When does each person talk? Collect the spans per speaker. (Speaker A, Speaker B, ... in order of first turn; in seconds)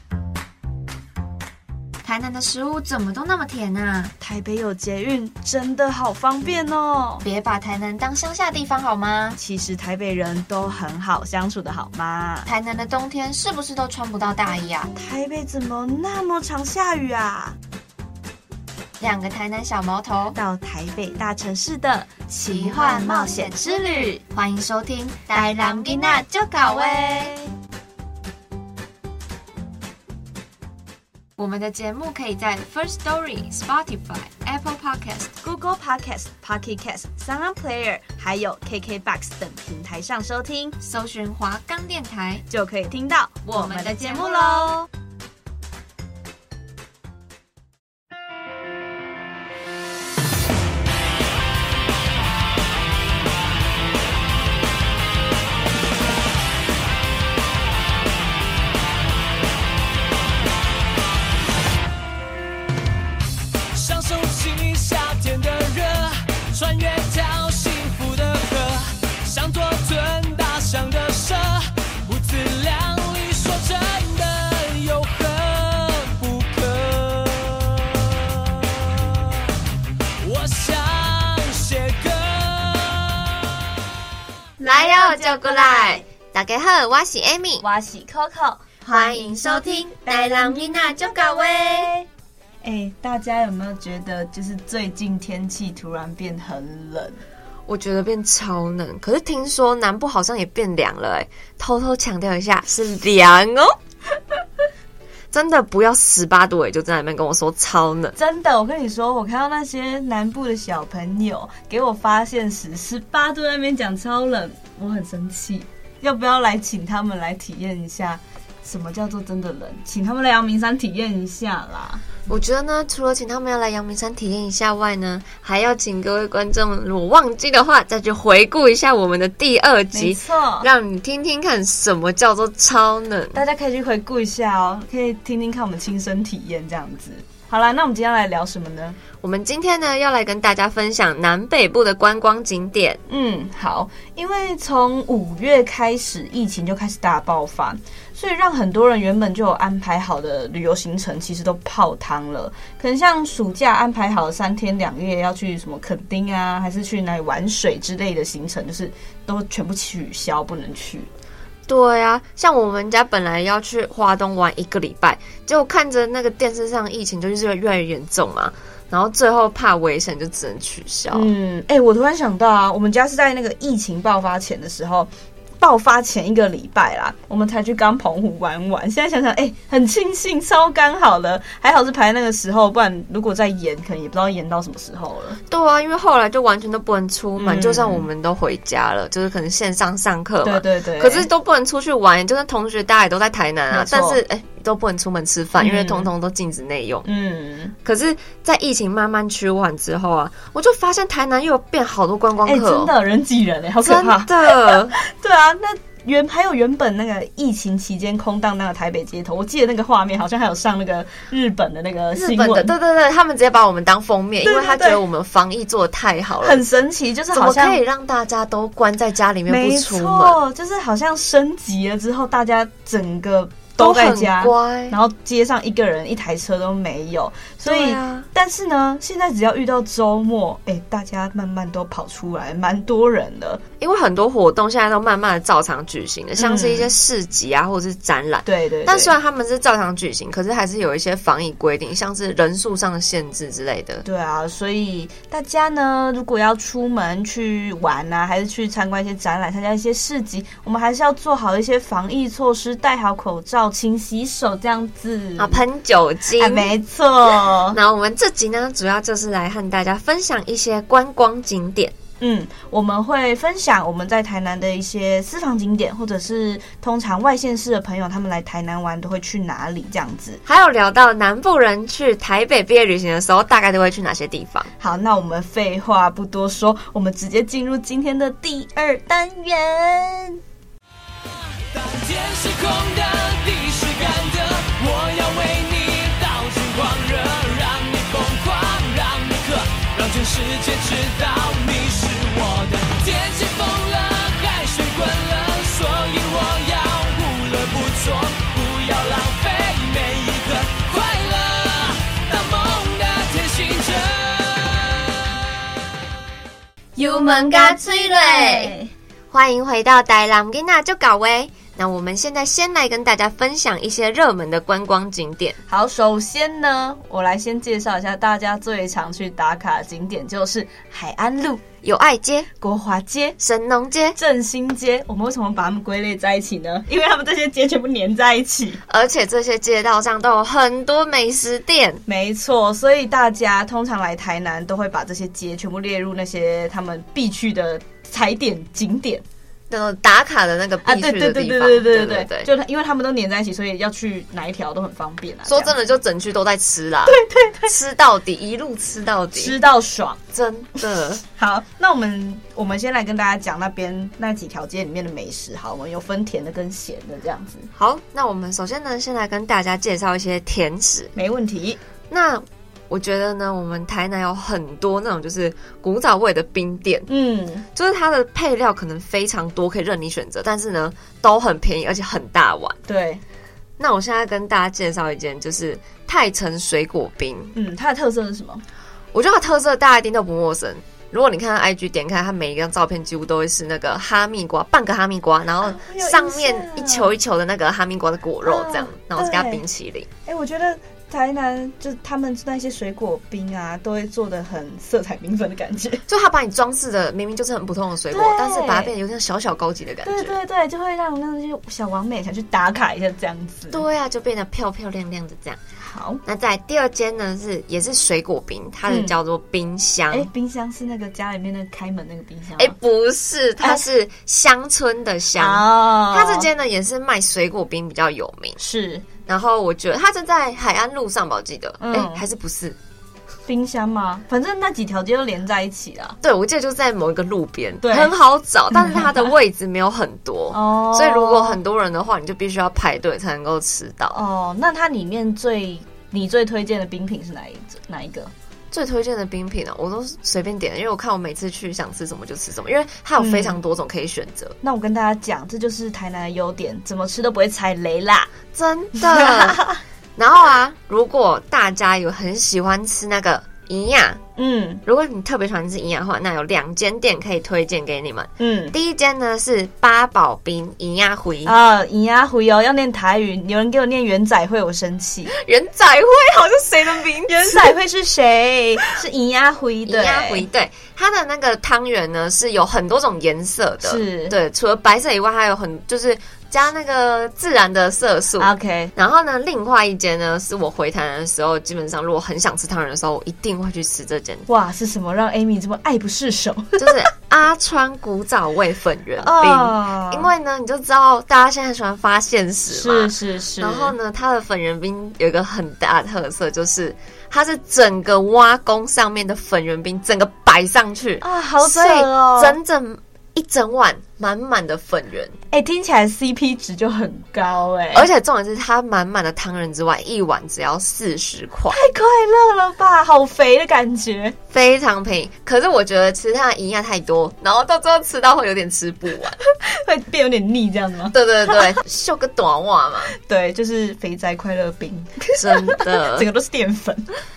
Speaker A: 2.0-4.1, 7.2-9.4, 12.4-14.9, 19.0-20.4, 22.5-27.4, 31.4-35.3, 40.8-42.5, 43.5-44.9, 84.6-87.7, 88.8-91.9, 97.7-103.8, 105.3-108.2, 122.3-133.4, 139.2-143.0, 161.7-171.3, 185.5-197.1, 197.8-202.9, 203.8-204.9, 212.1-216.6, 217.3-220.4, 223.8-225.0, 227.7-228.3, 233.8-244.1, 255.4-256.7, 257.5-261.9, 270.4-274.7, 307.0-308.8, 309.3-315.6, 321.8-322.5, 323.4-324.2, 328.9-332.0, 339.7-342.5, 345.4-349.6, 350.3-351.2, 357.8-361.1, 362.1-367.1, 367.7-372.8, 373.8-377.5, 379.1-390.1, 396.1-400.4, 403.7-405.6, 406.2-410.3, 412.6-418.6, 419.3-422.8, 426.2-434.2, 438.7-444.6, 448.5-454.2, 454.9-461.6, 465.3-467.7, 469.9-484.4, 486.8-505.4, 507.9-511.8, 514.5-519.4, 521.1-523.1, 525.4-526.3
Speaker B: 4.2-7.2, 9.4-12.5, 14.9-17.6, 20.4-24.2, 25.4-27.5, 35.4-40.8, 42.5-44.8, 84.6-86.0, 87.6-91.0, 91.7-92.0, 92.6-97.2, 108.2-122.0, 129.9-130.7, 133.3-139.0, 143.1-161.1, 171.1-185.4, 187.4-188.1, 190.4-191.3, 193.7-194.2, 195.6-196.1, 197.0-197.7, 202.4-212.7, 214.4-215.0, 216.4-217.8, 219.5-233.6, 236.4-236.9, 238.4-239.1, 244.1-255.6, 256.4-257.8, 262.2-270.4, 274.8-280.4, 307.0-308.9, 315.7-321.6, 322.6-323.4, 324.1-328.8, 332.1-339.2, 340.8-345.8, 347.1-347.8, 349.4-350.2, 351.2-357.7, 361.2-361.8, 367.1-367.6, 372.9-373.2, 377.5-378.6, 385.6-387.1, 388.4-389.6, 390.3-396.1, 398.1-398.9, 400.0-403.8, 405.8-406.2, 408.9-409.1, 410.1-412.8, 415.4-416.5, 418.6-419.1, 421.8-422.2, 423.5-426.2, 427.8-428.1, 428.7-429.3, 430.5-431.6, 434.1-438.3, 443.2-443.6, 444.6-448.3, 449.0-449.8, 454.4-454.8, 458.4-458.7, 461.4-465.3, 467.3-470.4, 473.8-474.4, 478.4-478.9, 484.5-487.1, 489.2-490.3, 492.7-493.9, 501.2-502.6, 505.5-508.1, 511.7-514.4, 519.5-521.8, 523.1-527.1
Speaker C: 63.7-79.4, 80.2-83.5, 281.5-305.3